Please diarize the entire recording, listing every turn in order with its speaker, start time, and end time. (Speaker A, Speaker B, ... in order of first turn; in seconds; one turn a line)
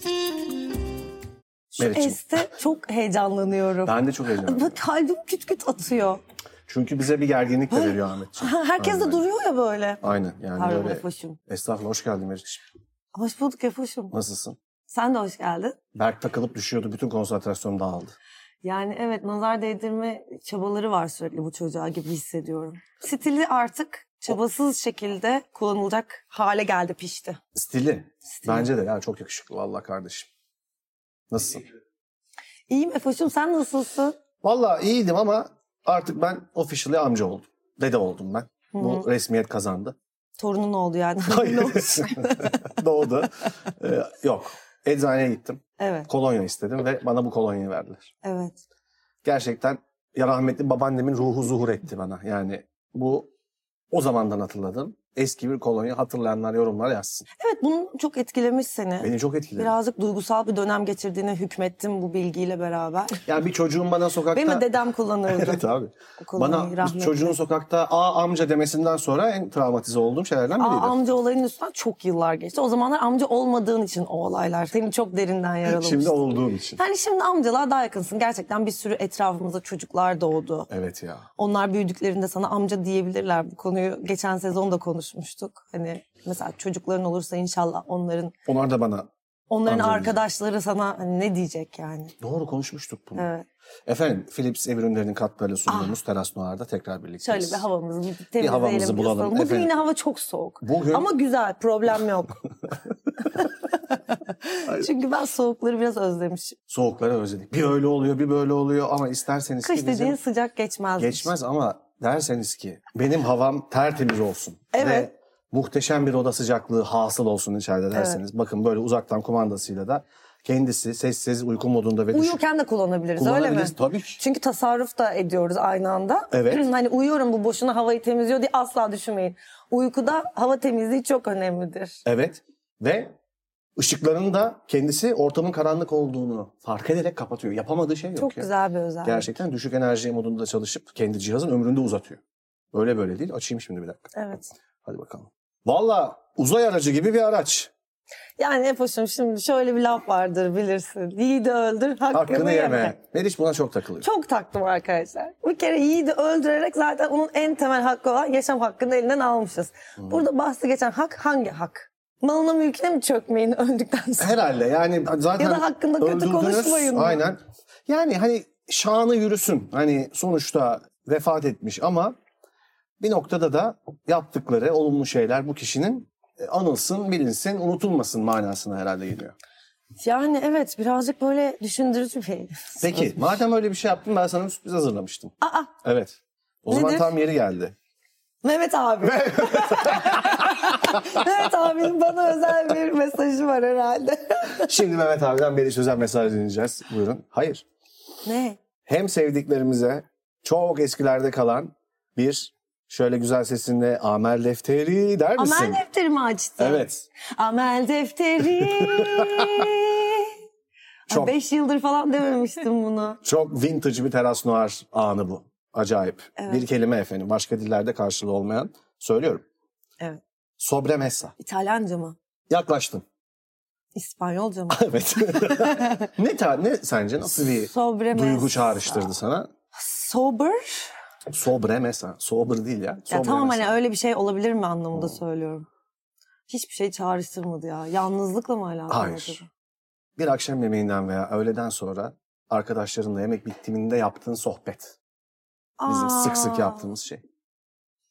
Speaker A: 1.7-6.2
Speaker B: 1.8-2.2
Speaker B: 3.8-4.8
Speaker B: 6.7-9.2
Speaker A: 7.7-10.0
Speaker B: 10.0-12.6
Speaker A: 10.6-11.4
Speaker A: 13.1-14.1
Speaker B: 14.1-14.6
Speaker A: 14.9-15.8
Speaker B: 15.9-18.1
Speaker A: 18.6-27.4
Speaker B: 27.5-30.3
Speaker A: 28.3-28.7
Speaker B: 31.3-31.6
Speaker A: 32.7-34.2
Speaker B: 34.4-40.0
Speaker A: 38.7-39.0
Speaker A: 40.4-42.6
Speaker B: 41.3-48.1
Speaker A: 45.8-46.1
Speaker A: 48.2-48.6
Speaker B: 49.2-53.3
Speaker B: 53.9-57.3
Speaker A: 57.4-63.2
Speaker B: 59.0-59.7
Speaker B: 63.2-64.7
Speaker A: 64.3-65.6
Speaker B: 65.3-71.0
Speaker A: 66.2-67.3
Speaker A: 70.6-76.2
Speaker B: 75.7-76.8
Speaker A: 76.8-80.7
Speaker B: 80.7-81.3
Speaker A: 81.4-88.3
Speaker B: 88.5-89.1
Speaker A: 89.5-92.1
Speaker B: 89.7-90.2
Speaker B: 92.2-93.2
Speaker A: 93.2-93.4
Speaker B: 93.9-97.6
Speaker A: 95.7-95.9
Speaker A: 97.2-102.4
Speaker B: 98.4-99.7
Speaker B: 100.6-101.1
Speaker A: 103.2-106.6
Speaker B: 106.7-110.2
Speaker A: 109.6-111.3
Speaker B: 111.0-122.4
Speaker A: 114.7-115.1
Speaker A: 117.9-118.2
Speaker A: 122.1-132.0
Speaker B: 123.2-124.2
Speaker B: 126.3-126.6
Speaker B: 132.0-133.1
Speaker B: 133.8-138.5
Speaker A: 138.2-139.3
Speaker B: 139.0-142.2
Speaker B: 142.7-144.1
Speaker A: 144.1-144.5
Speaker B: 144.8-147.7
Speaker A: 148.4-153.0
Speaker B: 152.1-154.1
Speaker A: 154.0-164.3
Speaker B: 164.2-172.1
Speaker A: 165.4-167.2
Speaker B: 173.0-179.3
Speaker A: 180.0-183.1
Speaker B: 182.8-187.7
Speaker A: 185.4-185.7
Speaker A: 186.7-187.1
Speaker A: 188.4-194.7
Speaker B: 189.0-191.0
Speaker B: 194.6-197.6
Speaker A: 198.2-198.6
Speaker B: 198.8-205.8
Speaker A: 205.4-210.3
Speaker B: 206.6-207.0
Speaker B: 208.6-209.7
Speaker B: 211.1-211.3
Speaker A: 211.1-213.2
Speaker B: 213.2-219.4
Speaker A: 216.4-216.6
Speaker B: 220.6-221.3
Speaker A: 221.4-222.2
Speaker B: 222.5-223.0
Speaker A: 223.9-226.1
Speaker B: 224.7-229.5
Speaker A: 227.2-229.1
Speaker A: 229.7-230.9
Speaker B: 231.3-233.7
Speaker A: 233.1-235.7
Speaker A: 236.5-239.5
Speaker B: 238.9-239.4
Speaker B: 240.2-244.9
Speaker A: 245.8-246.9
Speaker B: 245.9-247.2